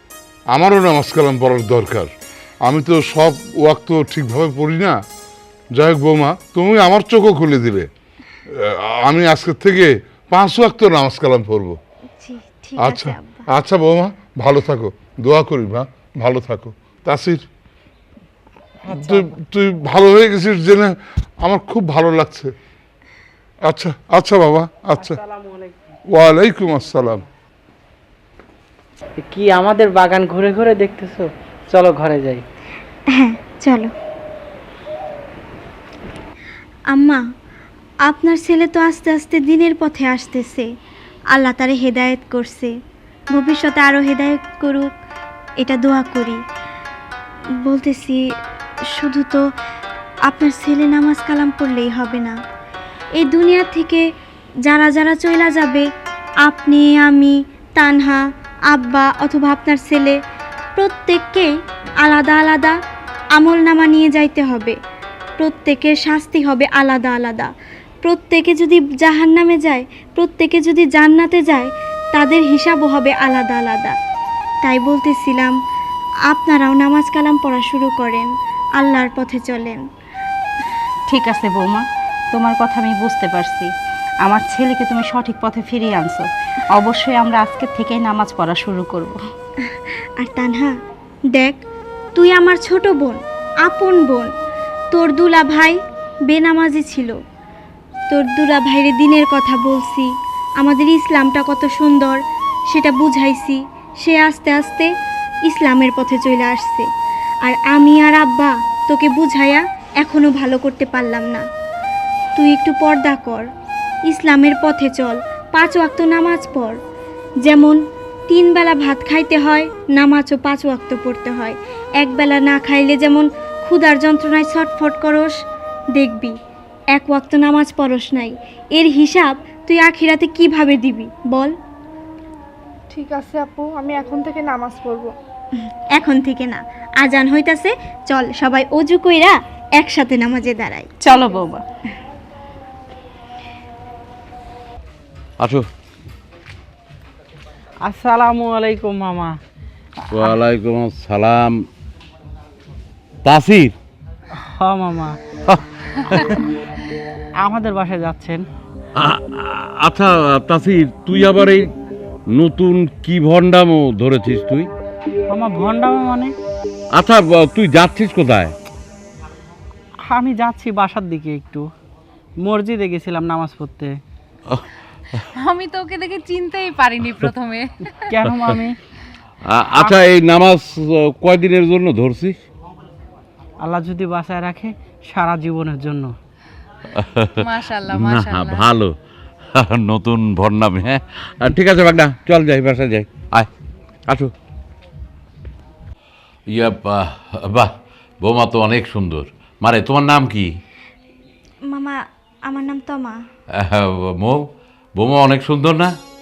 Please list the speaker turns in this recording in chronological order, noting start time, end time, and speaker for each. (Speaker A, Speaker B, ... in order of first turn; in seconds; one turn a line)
Speaker A: 0.5-2.1
Speaker A: 2.6-5.0
Speaker A: 5.7-7.9
Speaker A: 8.5-11.8
Speaker B: 12.2-13.4
Speaker A: 12.8-17.5
Speaker C: 18.9-19.3
Speaker A: 18.9-22.5
Speaker A: 23.6-25.2
Speaker C: 25.0-25.7
Speaker A: 26.1-27.2
Speaker C: 29.2-32.4
Speaker B: 33.1-33.9
Speaker B: 36.9-37.2
Speaker B: 38.0-40.7
Speaker B: 41.3-42.8
Speaker B: 43.3-44.9
Speaker B: 45.6-46.4
Speaker B: 47.6-48.2
Speaker B: 48.9-49.5
Speaker B: 50.2-52.4
Speaker B: 53.1-54.1
Speaker B: 54.6-55.9
Speaker B: 56.4-60.2
Speaker B: 60.8-62.8
Speaker B: 63.4-64.8
Speaker B: 65.4-67.5
Speaker B: 68.0-74.0
Speaker B: 74.6-75.5
Speaker B: 76.3-79.8
Speaker D: 81.1-83.7
Speaker D: 84.2-89.2
Speaker B: 89.7-90.8
Speaker B: 91.3-91.6
Speaker B: 92.2-94.3
Speaker B: 94.9-97.2
Speaker B: 98.1-104.9
Speaker B: 105.5-106.9
Speaker B: 107.4-111.5
Speaker B: 112.3-113.5
Speaker B: 114.1-116.8
Speaker B: 117.4-125.4
Speaker B: 125.9-126.4
Speaker B: 126.9-131.6
Speaker E: 132.9-135.1
Speaker B: 135.9-140.9
Speaker D: 141.0-141.6
Speaker F: 145.4-145.7
Speaker C: 147.8-149.4
Speaker C: 150.0-150.4
Speaker F: 150.1-151.7
Speaker F: 153.2-153.7
Speaker C: 154.3-155.2
Speaker C: 157.4-158.4
Speaker F: 159.0-161.7
Speaker F: 162.3-164.7
Speaker C: 165.3-166.3
Speaker F: 166.9-168.5
Speaker C: 170.1-171.7
Speaker C: 172.4-174.0
Speaker G: 175.3-177.9
Speaker C: 178.1-178.8
Speaker F: 179.4-182.4
Speaker C: 183.6-186.1
Speaker F: 186.9-188.9
Speaker G: 187.4-188.7
Speaker F: 189.5-193.5
Speaker F: 196.5-200.5
Speaker B: 201.7-203.2
Speaker F: 203.5-206.0